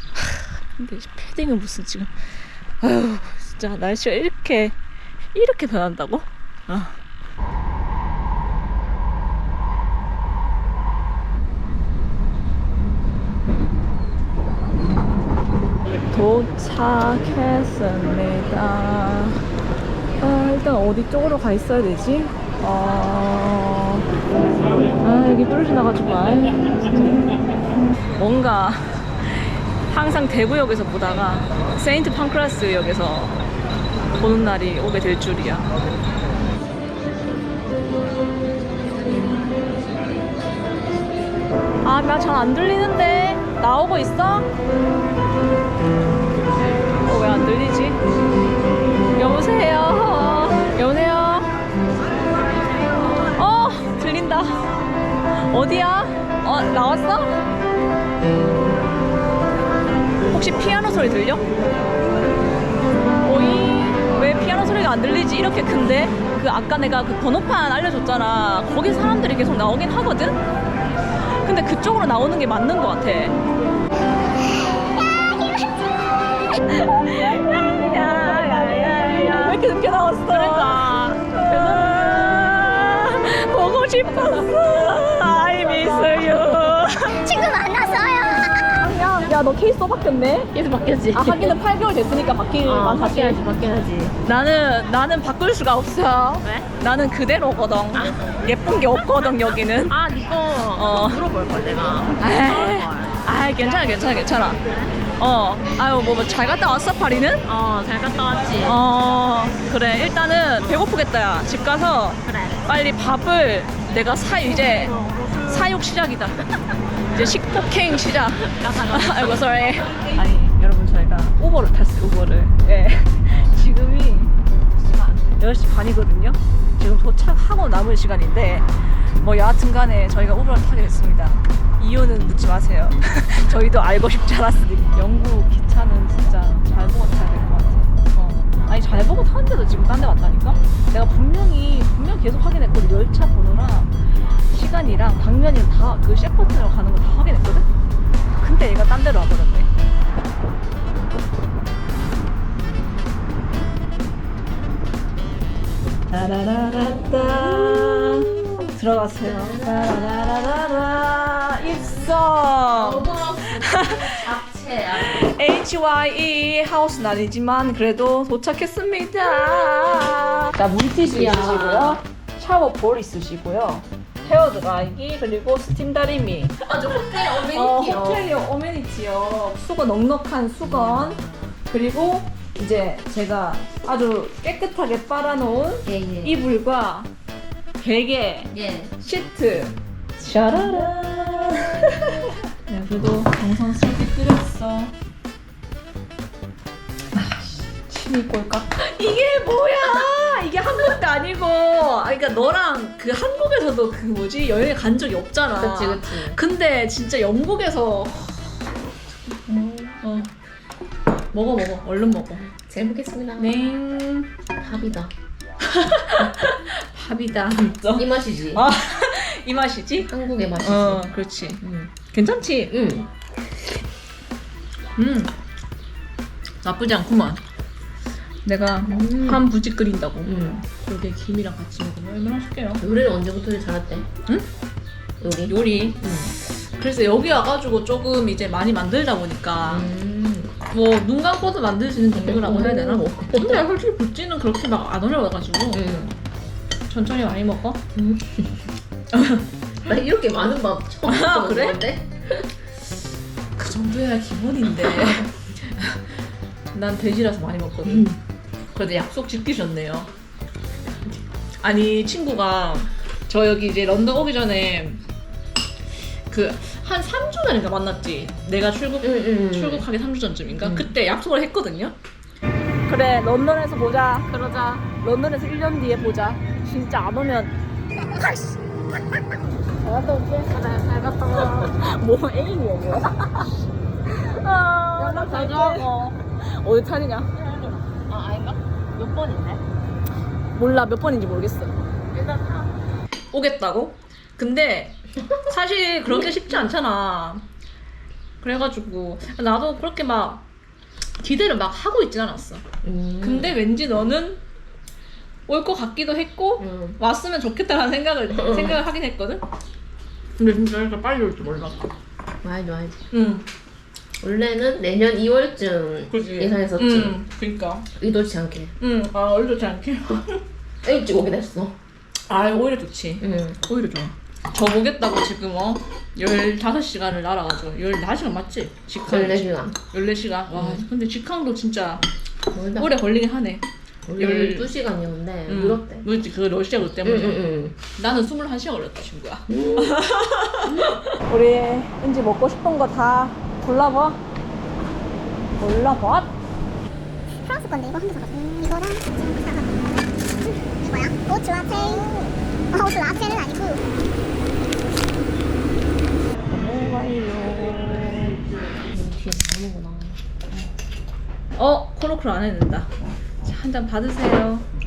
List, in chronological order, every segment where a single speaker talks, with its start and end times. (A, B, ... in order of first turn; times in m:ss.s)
0:00.8-0:04.8 A
0:05.3-0:07.0 A
0:16.1-0:19.4 A
0:20.2-0:24.1 A
0:25.0-0:27.4 A
0:28.2-0:33.4 A
0:34.2-0:35.7 A
0:41.8-0:44.5 A
0:47.0-0:48.0 A
0:49.2-0:51.5 A
0:53.4-0:54.7 A
0:55.3-0:57.4 A
1:00.3-1:01.5 A
1:03.2-1:10.4 A
1:11.3-1:13.4 A
1:16.7-1:27.2 A
1:17.8-1:19.6 B
1:20.3-1:22.2 B
1:24.2-1:26.8 B
1:27.2-1:28.9 C
1:28.8-1:30.5 A
1:30.5-1:31.6 B
1:31.1-1:33.4 A
1:32.6-1:34.2 B
1:34.2-1:40.0 A
1:36.4-1:36.7 B
1:37.9-1:38.2 B
1:39.9-1:43.2 B
1:40.8-1:41.2 A
1:42.2-1:44.6 A
1:43.8-1:44.9 B
1:45.2-1:47.5 A
1:47.4-1:48.8 B
1:48.6-1:56.5 A
1:52.3-1:52.6 B
1:57.1-2:04.3 A
1:58.5-2:00.2 B
2:04.8-2:05.3 B
2:05.4-2:27.7 A
2:28.4-2:29.7 A
2:36.1-2:44.2 A
2:39.2-2:40.0 B
2:42.7-2:45.3 B
2:45.0-3:07.1 A
2:51.0-2:52.0 B
2:56.7-2:58.3 B
3:00.6-3:01.3 B
3:05.8-3:06.4 B
3:07.8-3:15.0 A
3:08.5-3:08.9 B
3:10.5-3:10.9 B
3:17.1-3:28.6 A
3:25.6-3:26.4 B
3:29.5-3:30.0 B
3:30.0-3:30.3 A
3:31.3-3:32.5 A
3:32.6-3:33.6 B
3:33.4-3:34.3 A
3:34.6-3:35.1 B
3:35.6-3:42.7 A
3:38.0-3:38.6 B
3:40.1-3:41.9 B
3:42.7-3:43.1 B
3:45.0-3:45.3 A
3:46.6-3:47.4 A
3:48.4-3:52.8 A
3:48.8-3:49.4 B
3:50.2-3:50.6 B
3:52.8-3:54.1 B
3:55.2-3:56.3 B
3:55.5-3:59.9 A
3:59.7-4:00.6 B
4:00.7-4:05.8 A
4:02.2-4:03.6 B
4:05.7-4:06.2 B
4:06.9-4:07.8 A
4:08.0-4:08.6 B
4:09.1-4:09.4 A
4:09.9-4:12.5 B
4:11.0-4:11.8 A
4:13.6-4:16.2 A
4:16.7-4:18.2 A
4:17.9-4:18.2 B
4:18.7-4:20.1 A
4:21.6-4:25.0 A
4:26.3-4:32.0 A
4:29.0-4:29.9 B
4:30.6-4:30.9 B
4:32.9-4:34.3 A
4:34.3-4:34.9 B
4:35.0-4:37.6 A
4:39.8-4:40.5 A
4:40.4-4:41.8 B
4:41.3-4:43.5 A
4:44.1-4:47.3 A
4:45.0-4:45.9 B
4:47.4-4:49.6 B
4:50.6-4:51.8 A
4:52.1-4:52.7 B
4:53.3-4:57.4 A
4:56.1-4:56.5 B
4:58.4-5:00.4 A
5:01.2-5:02.6 A
5:02.8-5:03.6 B
5:03.2-5:04.4 A
5:05.5-5:09.4 A
5:06.6-5:07.0 B
5:08.3-5:08.8 B
5:10.4-5:11.9 A
5:12.4-5:13.0 B
5:13.1-5:13.5 A
5:14.2-5:17.2 B
5:16.1-5:17.9 A
5:17.9-5:18.8 B
5:18.8-5:20.4 A
5:20.8-5:21.8 B
5:22.3-5:32.0 A
5:23.2-5:23.6 B
5:29.1-5:29.8 B
5:30.6-5:30.8 B
5:32.5-5:32.9 B
5:32.8-5:33.6 A
5:34.1-5:36.1 B
5:34.2-5:34.7 A
5:35.5-5:44.2 A
5:37.0-5:37.8 B
5:39.5-5:40.0 B
5:40.6-5:41.0 B
5:45.6-5:46.3 A
5:47.3-5:53.8 C
5:56.5-5:58.4 A
5:58.9-6:00.2 B
6:01.6-6:04.7 A